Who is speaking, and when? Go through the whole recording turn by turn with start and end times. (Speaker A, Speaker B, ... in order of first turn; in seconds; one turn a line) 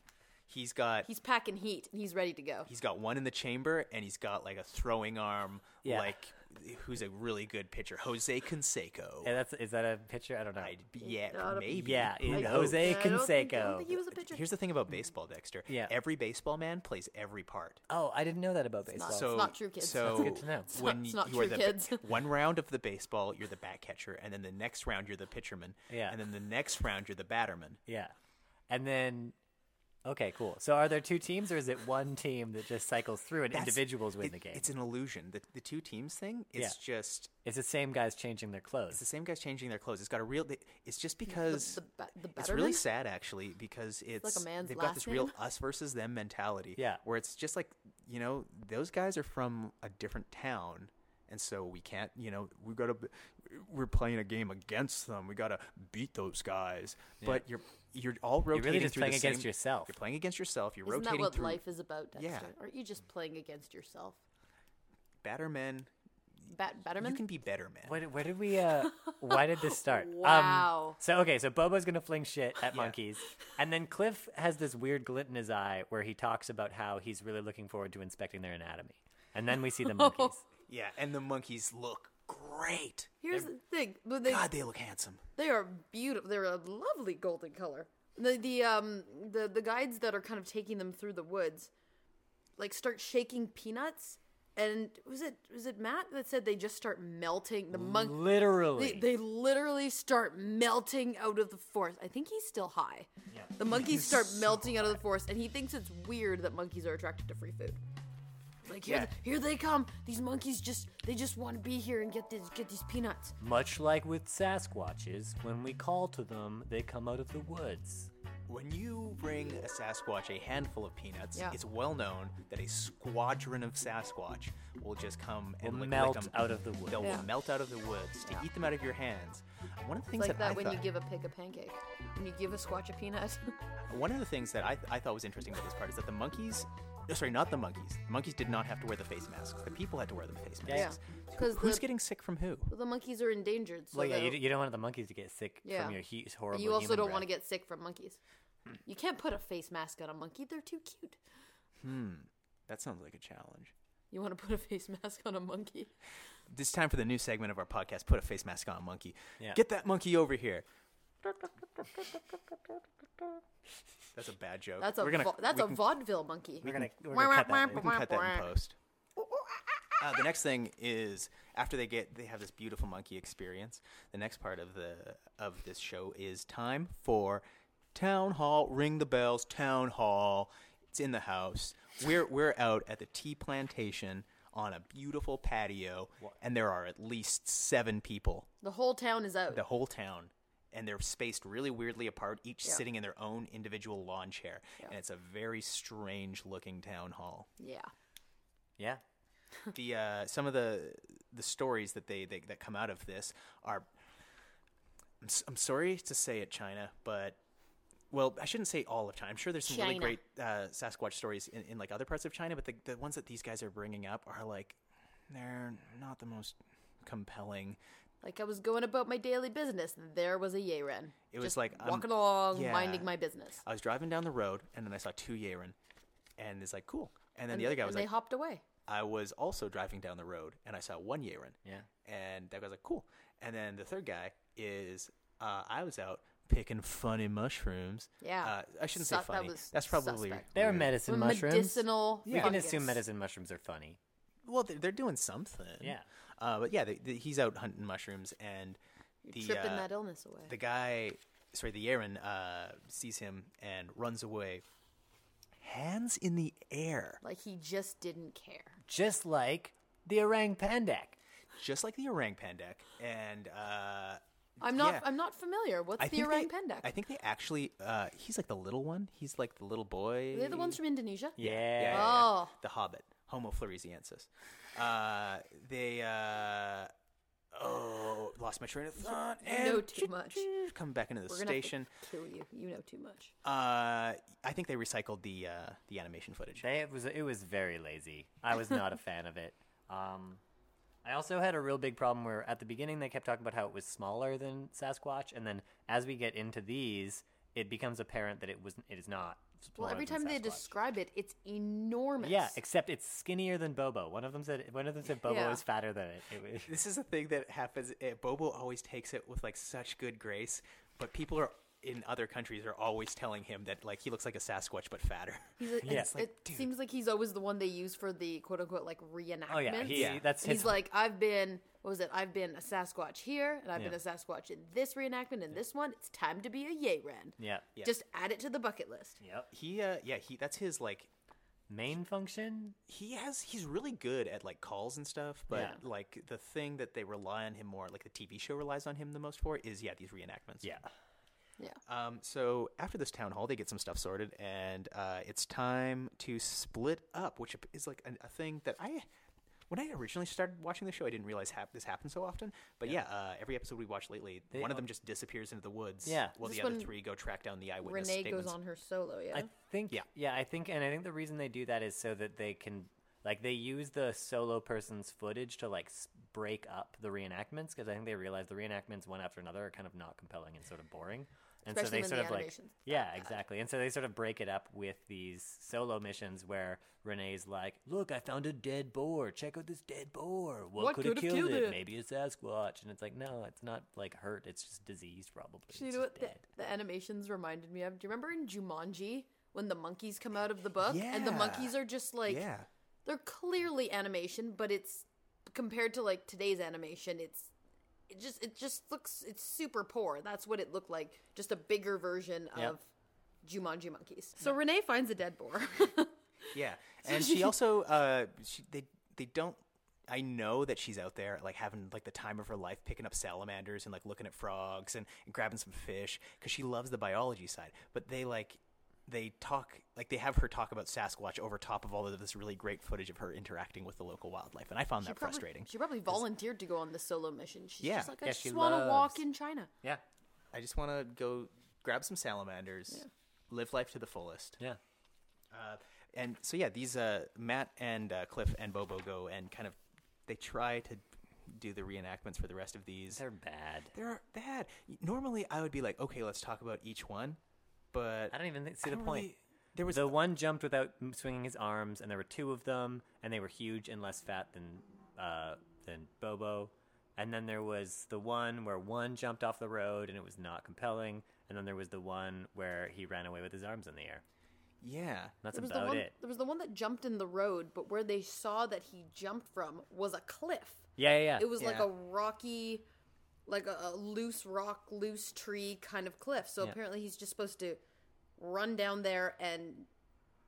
Speaker A: 0.5-1.1
Speaker B: 1.0-2.7
Speaker A: 2.7-9.3
Speaker C: 5.8-6.2
Speaker C: 9.2-10.8
Speaker A: 10.6-13.0
Speaker B: 11.0-14.4
Speaker C: 11.7-13.9
Speaker A: 14.2-17.8
Speaker C: 17.9-19.3
Speaker B: 18.9-22.1
Speaker A: 19.0-27.8
Speaker C: 20.0-20.7
Speaker C: 25.9-26.2
Speaker C: 27.9-28.1
Speaker C: 28.7-29.3
Speaker C: 30.0-34.6
Speaker A: 33.5-37.3
Speaker C: 37.4-39.0
Speaker A: 38.9-41.8
Speaker B: 41.3-42.8
Speaker A: 42.4-61.6
Speaker B: 44.2-45.3
Speaker C: 58.5-60.0
Speaker B: 60.8-64.2
Speaker A: 62.1-62.5
Speaker A: 65.2-65.9
Speaker B: 66.5-67.2
Speaker A: 67.0-68.0
Speaker C: 67.8-80.4
Speaker B: 68.8-71.0
Speaker A: 72.7-73.0
Speaker B: 79.8-80.3
Speaker A: 80.7-83.1
Speaker B: 83.2-84.5
Speaker A: 84.2-85.2
Speaker B: 85.3-91.7
Speaker B: 92.6-107.8
Speaker C: 97.7-99.0
Speaker C: 103.3-103.5
Speaker A: 103.7-105.0
Speaker B: 108.6-113.3
Speaker A: 108.8-109.1
Speaker C: 113.4-118.1
Speaker A: 118.5-130.8
Speaker C: 125.6-127.2
Speaker B: 127.0-127.3
Speaker B: 130.2-133.6
Speaker A: 133.9-142.7
Speaker C: 140.7-140.9
Speaker B: 140.7-141.9
Speaker B: 142.7-144.4
Speaker C: 143.9-147.3
Speaker B: 145.6-146.0
Speaker B: 146.5-148.2
Speaker B: 148.8-151.2
Speaker A: 151.8-153.7
Speaker B: 154.1-155.9
Speaker A: 156.5-160.7
Speaker A: 164.1-165.8
Speaker B: 164.8-168.5
Speaker C: 166.6-167.9
Speaker A: 167.7-168.8
Speaker A: 170.0-177.4
Speaker A: 177.9-188.5
Speaker B: 188.6-189.6
Speaker A: 189.5-197.5
Speaker B: 197.6-197.9
Speaker A: 199.7-203.9
Speaker A: 205.2-207.4
Speaker A: 208.1-217.8
Speaker B: 209.6-210.2
Speaker B: 218.2-223.6
Speaker A: 221.3-223.1
Speaker A: 223.6-225.7
Speaker A: 226.4-228.1
Speaker B: 227.5-228.6
Speaker A: 228.9-240.9
Speaker B: 238.2-243.0
Speaker C: 240.5-244.0
Speaker A: 242.2-242.6
Speaker A: 244.4-248.8
Speaker C: 245.8-246.1
Speaker B: 249.2-250.5
Speaker A: 249.3-249.9
Speaker A: 250.5-254.6
Speaker A: 255.6-257.2
Speaker B: 257.2-258.8
Speaker C: 258.8-261.2
Speaker A: 261.6-265.0
Speaker B: 264.6-266.9
Speaker A: 266.0-270.8
Speaker B: 270.3-272.5
Speaker C: 271.4-272.1
Speaker A: 271.4-276.9
Speaker A: 277.5-281.9
Speaker B: 279.0-280.5
Speaker B: 281.3-283.3
Speaker A: 283.4-286.6
Speaker C: 286.6-290.4
Speaker C: 291.0-300.7
Speaker B: 299.8-302.5
Speaker C: 302.2-306.8
Speaker B: 305.2-305.6
Speaker A: 306.6-316.7
Speaker B: 315.6-329.2
Speaker C: 315.8-316.1
Speaker C: 319.5-320.8
Speaker A: 319.9-320.2
Speaker C: 327.4-327.6
Speaker C: 329.2-329.5
Speaker A: 329.5-331.1
Speaker C: 331.7-332.8
Speaker A: 332.9-340.7
Speaker C: 335.5-335.8
Speaker B: 335.5-335.8
Speaker C: 340.6-340.9
Speaker A: 341.9-349.1
Speaker A: 349.7-358.6
Speaker C: 354.5-354.9
Speaker C: 356.0-356.4
Speaker B: 356.4-356.9
Speaker B: 357.8-359.5
Speaker C: 359.3-386.4
Speaker B: 371.7-373.3
Speaker B: 380.8-381.8
Speaker B: 385.7-392.4
Speaker A: 390.8-391.7
Speaker A: 392.2-392.7
Speaker B: 393.0-397.5
Speaker B: 398.1-402.8
Speaker B: 403.4-407.5
Speaker A: 406.5-425.7
Speaker B: 425.0-429.7
Speaker A: 427.8-428.1
Speaker C: 428.2-429.2
Speaker A: 430.5-434.6
Speaker A: 435.5-443.2
Speaker C: 443.1-443.9
Speaker A: 443.9-447.4
Speaker A: 447.9-450.1
Speaker C: 448.3-449.3
Speaker C: 449.9-464.2
Speaker A: 464.8-465.4
Speaker C: 465.4-466.1
Speaker B: 465.5-472.8
Speaker C: 471.0-471.5
Speaker A: 471.6-471.9
Speaker B: 473.5-477.8
Speaker B: 478.4-479.9